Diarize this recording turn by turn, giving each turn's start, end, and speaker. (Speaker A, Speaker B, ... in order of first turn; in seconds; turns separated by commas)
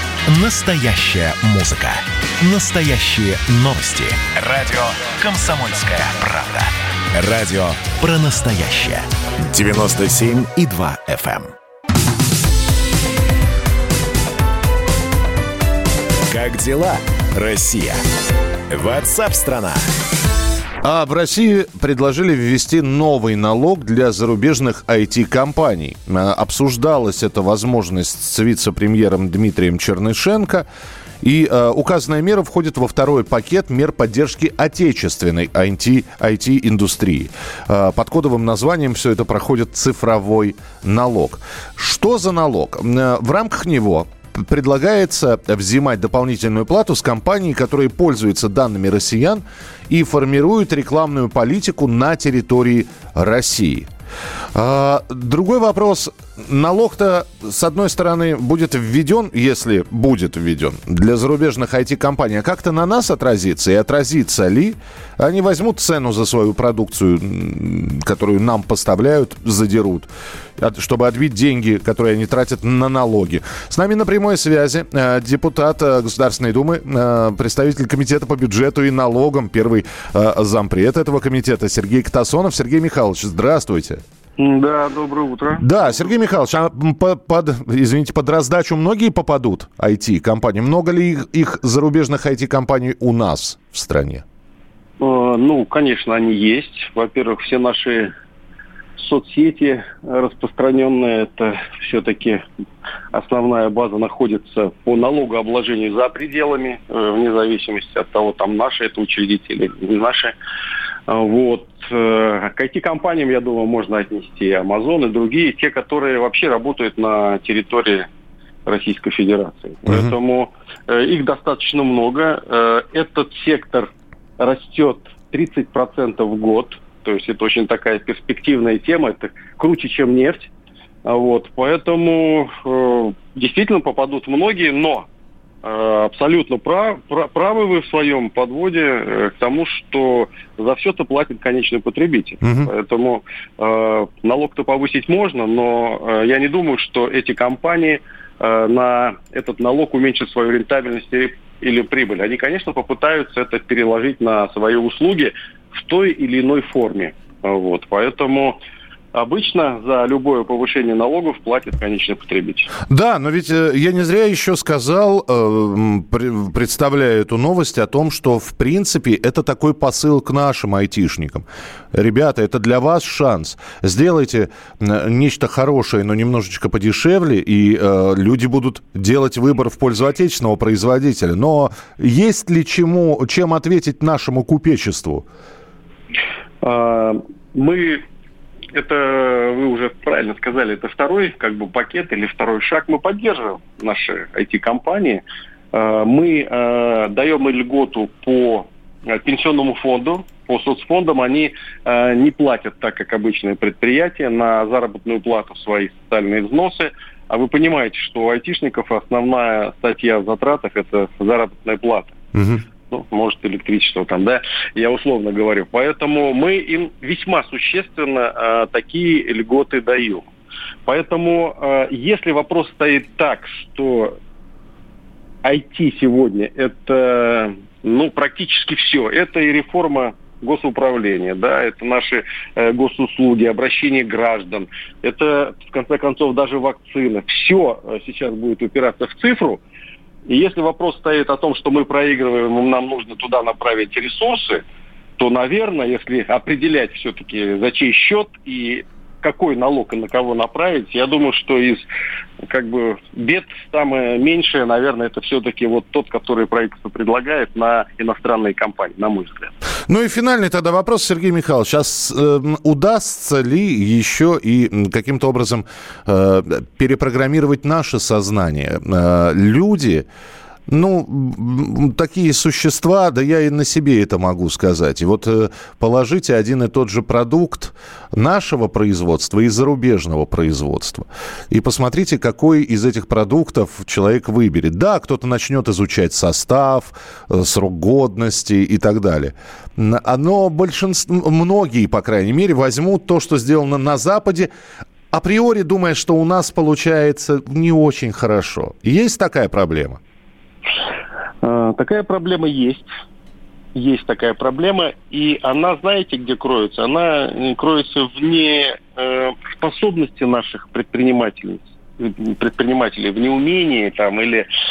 Speaker A: 0.3-11.5, Speaker A: 16.3-18.0, Speaker A: 18.7-19.8, Speaker B: 20.8-30.7, Speaker B: 31.2-53.9, Speaker B: 54.5-84.0, Speaker C: 84.4-86.0, Speaker B: 85.6-94.2, Speaker C: 95.0-98.1, Speaker C: 99.0-102.4, Speaker C: 103.1-110.3, Speaker C: 111.1-118.1, Speaker C: 118.7-130.5, Speaker C: 131.0-135.1, Speaker C: 135.6-158.6, Speaker B: 142.4-142.7, Speaker C: 159.1-162.7, Speaker B: 162.9-185.2, Speaker C: 186.6-188.0, Speaker C: 188.7-212.2, Speaker B: 212.3-212.6, Speaker C: 212.9-220.2, Speaker C: 220.8-224.2, Speaker C: 225.4-239.6, Speaker C: 240.3-244.6, Speaker C: 245.2-251.9, Speaker C: 252.4-259.5, Speaker B: 259.9-270.1, Speaker B: 270.7-294.5, Speaker B: 295.1-300.0, Speaker C: 301.4-302.9, Speaker C: 303.7-314.5